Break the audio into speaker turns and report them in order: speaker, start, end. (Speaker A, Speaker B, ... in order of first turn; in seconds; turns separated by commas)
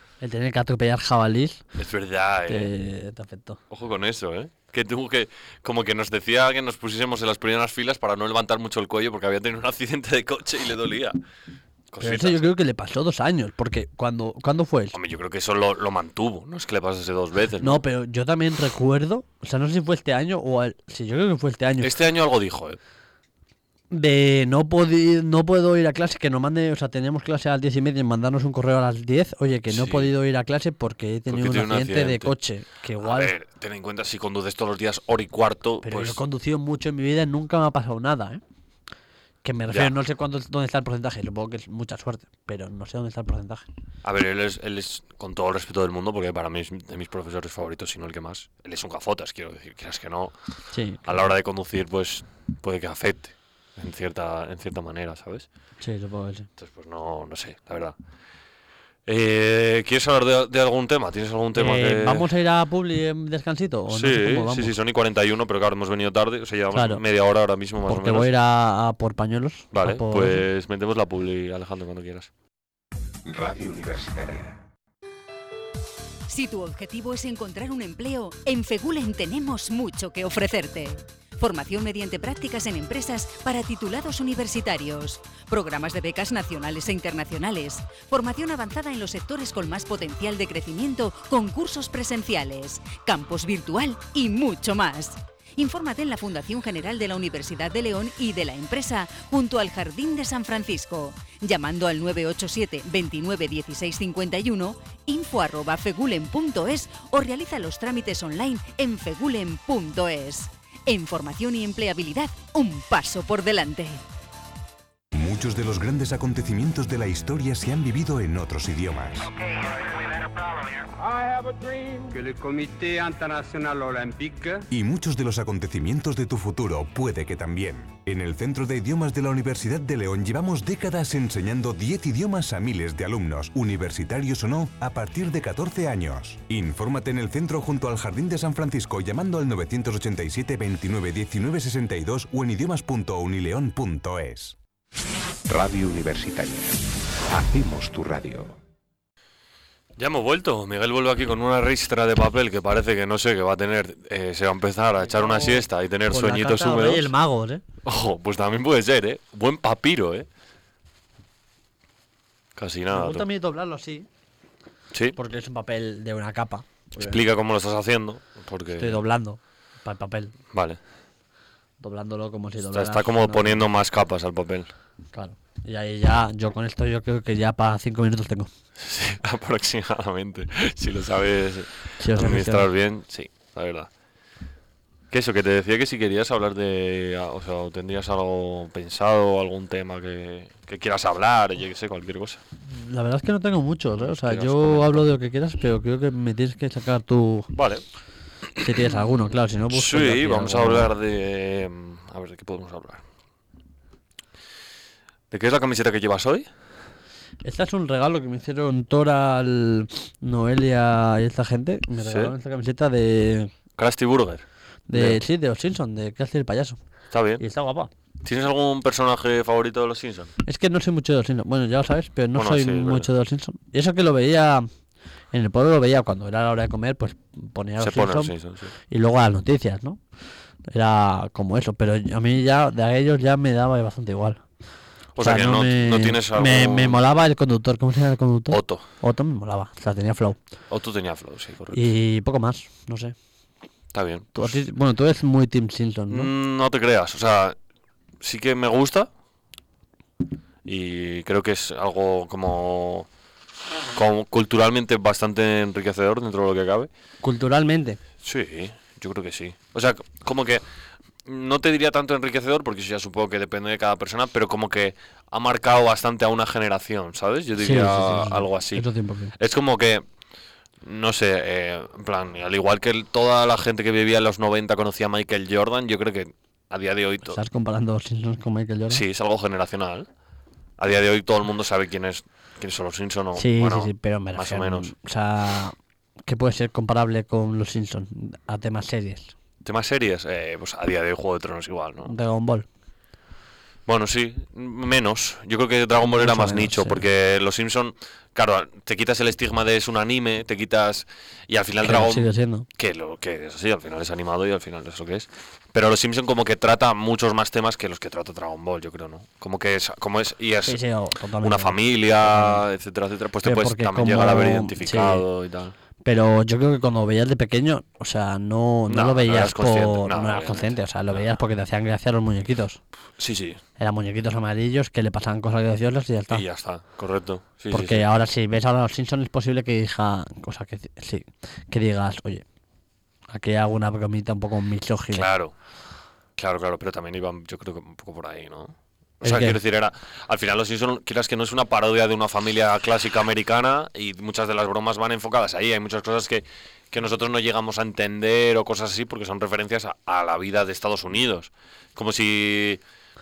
Speaker A: 0.2-1.6, Speaker B: 1.8-2.7, Speaker A: 2.5-3.6, Speaker B: 3.7-11.2, Speaker B: 11.9-12.5, Speaker A: 12.0-15.0, Speaker B: 14.9-17.8, Speaker A: 17.6-21.9, Speaker B: 21.8-22.8, Speaker A: 23.9-33.4, Speaker B: 29.7-30.1, Speaker B: 31.3-32.3, Speaker B: 33.0-36.2, Speaker A: 35.8-38.4, Speaker A: 39.4-43.6, Speaker B: 44.0-50.3, Speaker A: 50.7-51.3, Speaker B: 51.0-55.5, Speaker A: 55.8-56.5, Speaker B: 56.6-58.0, Speaker B: 59.1-62.3, Speaker A: 61.5-64.7, Speaker B: 63.9-68.3, Speaker A: 66.7-67.0, Speaker A: 67.9-70.5, Speaker B: 69.7-72.3, Speaker C: 73.2-74.6, Speaker D: 76.3-114.0, Speaker E: 115.1-119.3, Speaker F: 119.5-124.7, Speaker E: 124.7-144.6, Speaker C: 145.5-148.6, Speaker B: 150.0-157.1, Speaker A: 155.1-157.6, Speaker B: 157.8-160.3, Speaker B: 162.6-163.3, Speaker A: 162.9-164.1, Speaker A: 165.2-167.2, Speaker B: 167.0-169.0, Speaker A: 168.8-170.3, Speaker B: 170.5-170.8, Speaker A: 171.8-173.6, Speaker B: 172.7-174.7, Speaker A: 175.1-178.5, Speaker B: 178.8-183.9, Speaker A: 182.0-182.7, Speaker B: 185.1-192.4, Speaker A: 192.7-197.5, Speaker B: 194.0-195.1, Speaker B: 197.5-197.8, Speaker A: 198.6-200.9, Speaker B: 199.7-203.0, Speaker B: 205.3-206.5, Speaker A: 207.4-213.5, Speaker B: 212.0-212.3, Speaker B: 213.8-215.2, Speaker A: 214.9-216.8, Speaker B: 217.1-217.4, Speaker A: 217.4-217.9, Speaker B: 218.2-220.3, Speaker A: 220.4-224.7, Speaker B: 222.3-223.1, Speaker A: 225.3-228.3, Speaker B: 227.8-228.7, Speaker A: 228.9-230.0, Speaker A: 230.7-234.4, Speaker B: 235.2-237.0, Speaker A: 235.2-240.4, Speaker B: 238.5-238.9, Speaker B: 240.7-241.9, Speaker A: 241.7-243.2, Speaker B: 243.9-244.6, Speaker A: 244.3-246.3, Speaker B: 246.1-247.6, Speaker B: 248.2-249.1, Speaker B: 250.7-253.1, Speaker B: 253.9-256.9, Speaker A: 257.2-258.0, Speaker B: 258.2-260.6, Speaker B: 261.2-270.1, Speaker A: 267.6-269.4, Speaker B: 270.8-277.4, Speaker A: 277.3-279.0, Speaker B: 278.9-280.1, Speaker B: 280.8-284.9, Speaker A: 283.4-285.8, Speaker A: 286.3-289.3, Speaker B: 289.6-292.1, Speaker A: 292.1-292.7, Speaker B: 293.9-310.8, Speaker A: 296.1-297.0, Speaker A: 301.8-302.7, Speaker A: 310.7-312.6, Speaker B: 311.4-315.8, Speaker A: 313.4-315.2, Speaker A: 316.0-322.8, Speaker B: 318.9-321.3, Speaker B: 323.2-323.6, Speaker A: 323.8-326.4, Speaker B: 326.3-328.1, Speaker A: 327.7-332.4, Speaker A: 333.3-335.3, Speaker B: 335.1-335.5, Speaker B: 336.4-352.8, Speaker A: 339.2-339.6